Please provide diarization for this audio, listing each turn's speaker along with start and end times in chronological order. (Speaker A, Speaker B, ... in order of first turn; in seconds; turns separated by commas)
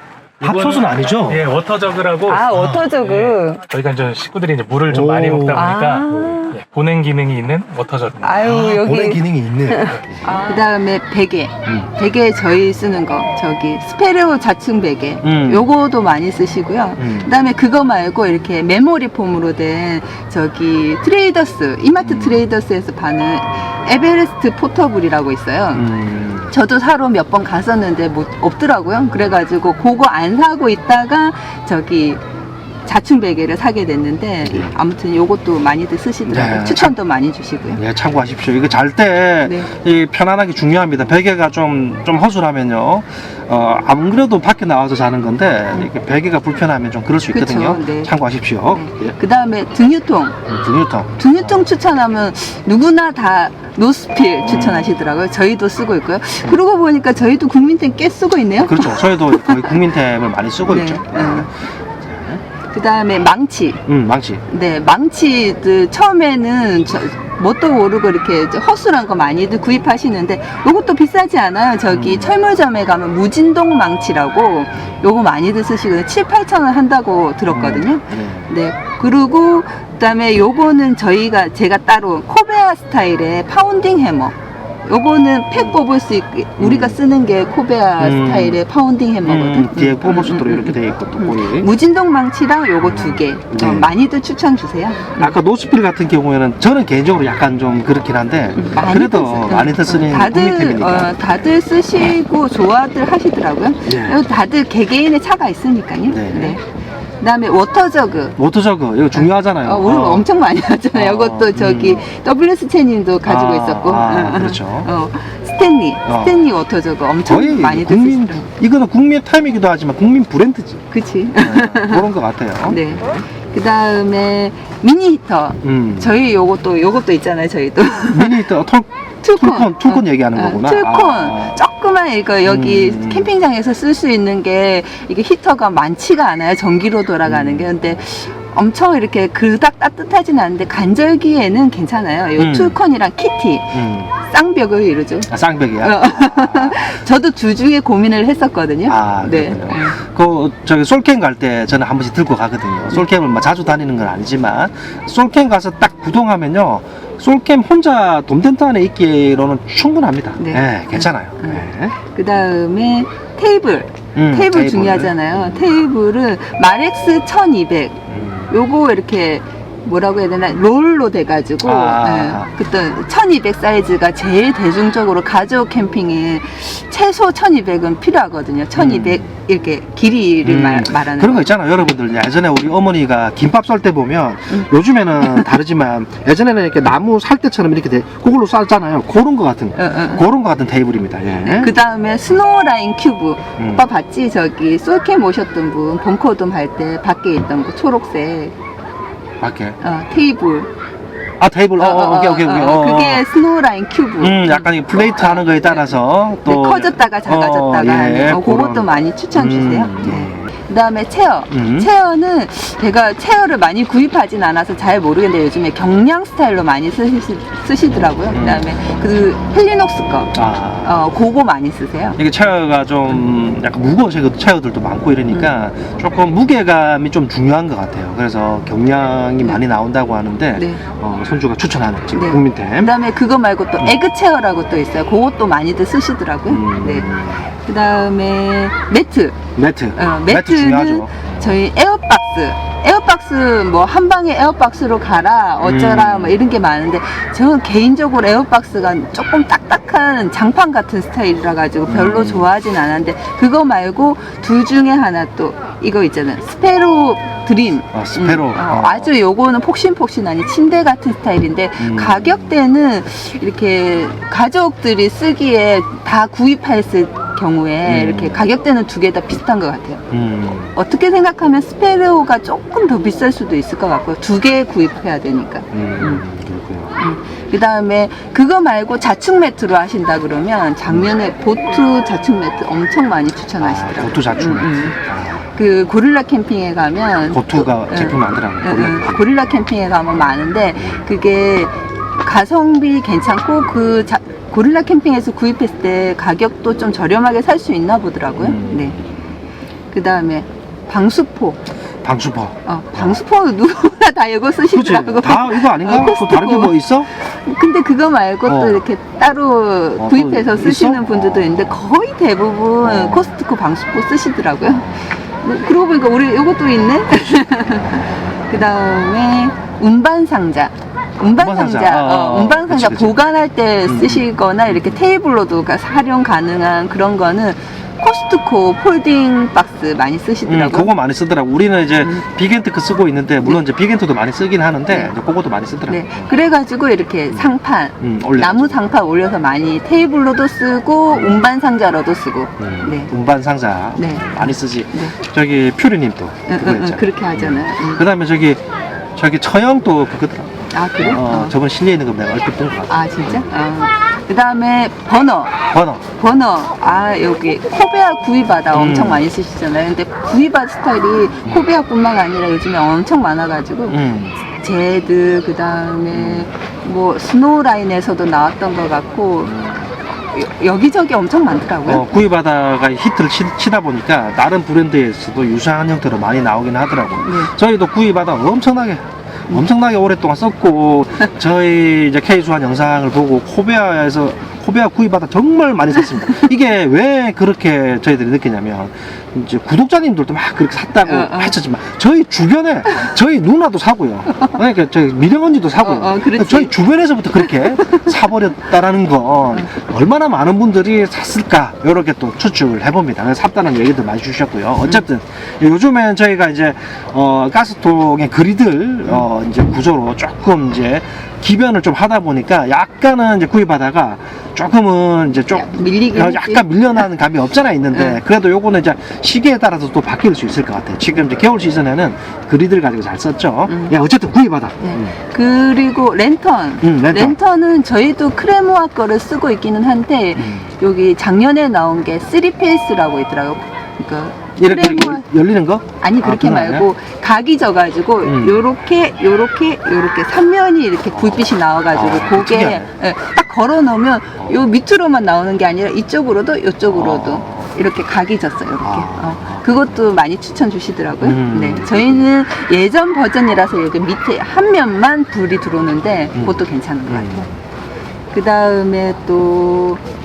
Speaker A: 0.4-8.5, Speaker B: 0.4-1.4, Speaker C: 2.3-3.6, Speaker B: 2.5-2.9, Speaker B: 4.9-5.7, Speaker C: 5.5-6.5, Speaker C: 8.2-25.9, Speaker B: 8.2-10.4, Speaker A: 9.8-10.2, Speaker B: 15.2-15.7, Speaker B: 17.0-17.3, Speaker B: 22.0-22.4, Speaker B: 25.7-26.5, Speaker C: 26.5-32.2, Speaker C: 32.8-37.8, Speaker B: 34.4-34.7, Speaker B: 36.2-36.9, Speaker B: 37.7-49.1, Speaker C: 47.3-48.1, Speaker C: 48.7-50.4, Speaker B: 50.5-51.7, Speaker C: 51.2-59.8, Speaker B: 54.4-54.9, Speaker B: 58.6-62.4, Speaker C: 60.7-61.5, Speaker C: 62.7-63.8, Speaker B: 63.9-64.4, Speaker C: 64.5-95.3, Speaker B: 71.9-72.3, Speaker B: 77.5-78.5, Speaker B: 86.6-87.0, Speaker B: 88.0-88.6, Speaker B: 89.2-91.7, Speaker B: 92.8-93.9, Speaker B: 95.2-101.3, Speaker C: 98.5-106.6, Speaker B: 103.8-104.2, Speaker B: 106.1-106.6, Speaker C: 107.2-108.4, Speaker B: 108.4-110.3, Speaker C: 109.1-118.5, Speaker B: 110.9-112.0, Speaker B: 113.2-114.9, Speaker B: 116.0-116.4, Speaker B: 117.2-120.8, Speaker C: 120.9-122.1, Speaker B: 121.3-123.2, Speaker C: 122.6-128.4, Speaker B: 125.6-126.2, Speaker B: 128.1-131.6, Speaker C: 129.2-150.0, Speaker B: 132.4-133.3, Speaker B: 137.2-137.9, Speaker B: 142.3-142.8, Speaker B: 143.7-144.1, Speaker B: 145.3-147.0, Speaker B: 148.9-161.9, Speaker C: 160.4-181.5, Speaker B: 164.1-165.7, Speaker B: 168.1-168.5, Speaker B: 171.6-172.5, Speaker B: 178.7-179.2, Speaker B: 180.4-191.7, Speaker C: 185.2-185.5, Speaker C: 189.8-190.2, Speaker C: 191.4-198.5, Speaker B: 193.6-193.9, Speaker B: 199.4-199.8, Speaker C: 199.8-200.7, Speaker B: 201.4-203.2, Speaker C: 201.8-222.2, Speaker B: 204.2-210.5, Speaker B: 211.5-211.9, Speaker B: 218.3-218.7, Speaker B: 220.3-221.0, Speaker B: 222.2-232.9, Speaker C: 230.6-230.8, Speaker C: 232.1-239.4, Speaker B: 236.5-237.5, Speaker B: 239.5-241.6, Speaker C: 239.9-270.0, Speaker B: 245.6-246.4, Speaker B: 251.9-252.5, Speaker B: 257.9-259.1, Speaker B: 261.8-262.6, Speaker B: 267.8-268.4, Speaker B: 270.1-270.7, Speaker C: 270.7-276.2, Speaker B: 275.7-277.0, Speaker C: 277.0-285.0, Speaker B: 283.6-285.4, Speaker C: 285.5-299.0, Speaker B: 287.3-289.2, Speaker B: 290.8-291.0, Speaker B: 298.4-299.2, Speaker C: 299.9-301.6, Speaker B: 302.0-303.2, Speaker C: 302.6-330.9, Speaker B: 304.7-307.1, Speaker B: 308.4-308.8, Speaker B: 310.0-311.7, Speaker B: 312.8-313.3, Speaker B: 314.7-315.1, Speaker B: 321.3-323.2, Speaker B: 323.9-325.0, Speaker B: 330.4-336.3, Speaker C: 332.0-332.3, Speaker C: 334.9-335.1, Speaker C: 335.9-343.1, Speaker B: 337.3-338.9, Speaker B: 341.1-341.4, Speaker B: 342.6-348.6, Speaker C: 343.9-345.1, Speaker C: 346.5-348.0, Speaker B: 349.1-353.5, Speaker C: 350.7-351.5, Speaker C: 352.9-355.6, Speaker B: 355.7-356.0, Speaker C: 356.2-372.0, Speaker B: 358.7-359.2, Speaker B: 363.9-364.4, Speaker B: 366.1-366.5, Speaker B: 369.4-369.9, Speaker B: 371.9-425.1, Speaker C: 377.2-377.5, Speaker C: 386.0-386.4, Speaker C: 391.0-391.6, Speaker C: 395.8-396.8, Speaker C: 397.4-398.2, Speaker C: 415.5-416.7, Speaker C: 417.9-418.2, Speaker C: 423.7-423.9, Speaker C: 424.8-435.2, Speaker B: 426.8-427.4, Speaker B: 430.4-430.7, Speaker B: 434.6-436.9, Speaker C: 436.0-457.5, Speaker B: 438.2-438.7, Speaker B: 441.1-442.9, Speaker B: 446.9-447.7, Speaker B: 448.8-449.9, Speaker B: 451.2-452.3, Speaker B: 456.3-457.5, Speaker C: 458.3-460.0